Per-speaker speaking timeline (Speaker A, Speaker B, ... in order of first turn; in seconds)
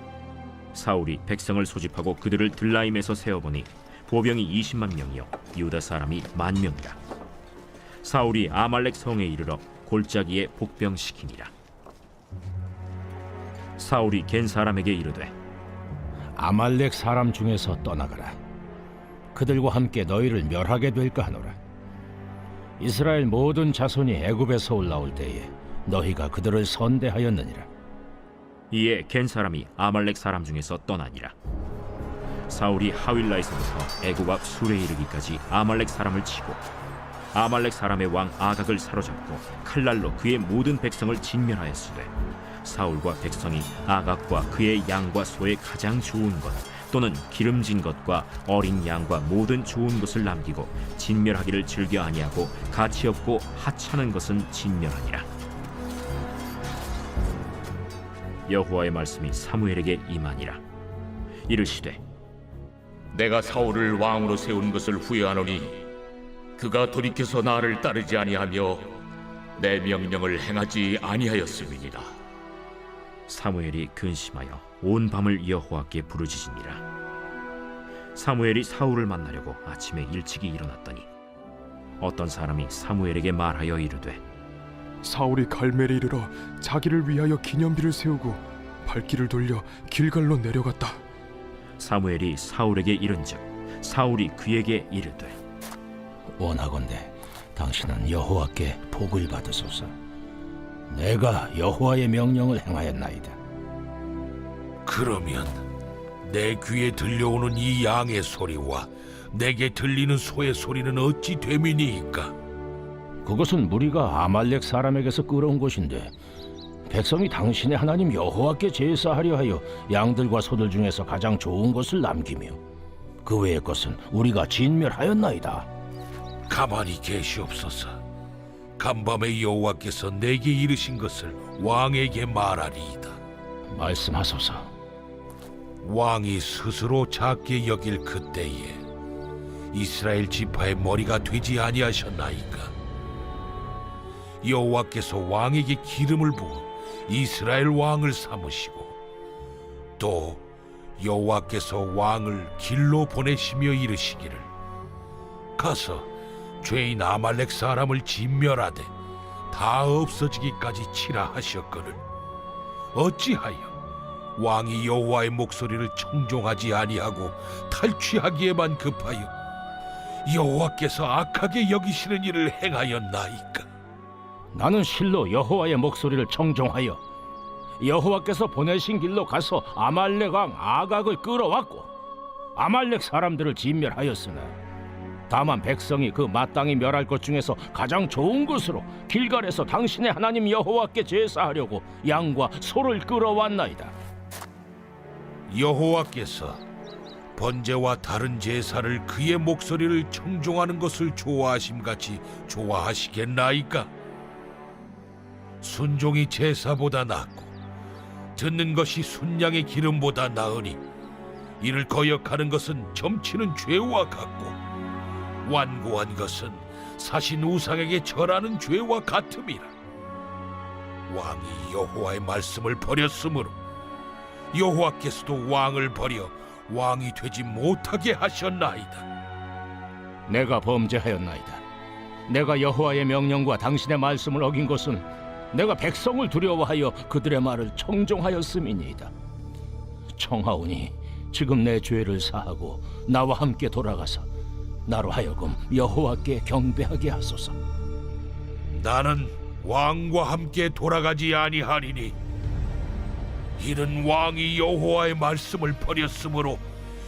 Speaker A: 0.8-7.0, 8.0-11.5, 13.8-15.3, 28.7-31.4, 32.5-36.6, 37.3-42.1, 42.6-55.3, 58.5-60.6, 61.5-62.0, 73.3-76.8, 78.2-81.1, 82.0-84.2, 91.8-95.4
Speaker B: 16.4-18.4, 19.3-21.6, 22.8-27.7, 96.4-99.9, 100.9-103.4, 113.2-116.1, 116.9-122.6, 123.2-125.7, 133.7-134.7, 174.5-177.0, 177.8-181.9, 182.6-184.6, 185.3-193.9, 230.3-231.6, 232.3-239.1, 240.2-244.3, 244.9-247.6
Speaker C: 63.1-65.8, 66.6-69.0, 69.6-72.1
Speaker D: 85.0-91.0
Speaker E: 104.8-105.6, 106.2-112.3, 126.5-128.0, 128.8-133.2, 135.8-138.8, 139.7-142.7, 144.4-149.0, 150.0-150.4, 151.0-154.5, 155.6-156.1, 156.6-158.9, 159.5-162.0, 162.9-163.8, 164.4-169.3, 170.2-173.7, 195.5-196.6, 197.4-203.9, 205.6-207.5, 208.4-210.8, 211.6-214.6, 215.4-219.7, 221.1-223.6, 224.5-229.1, 248.7-252.2, 253.6-256.6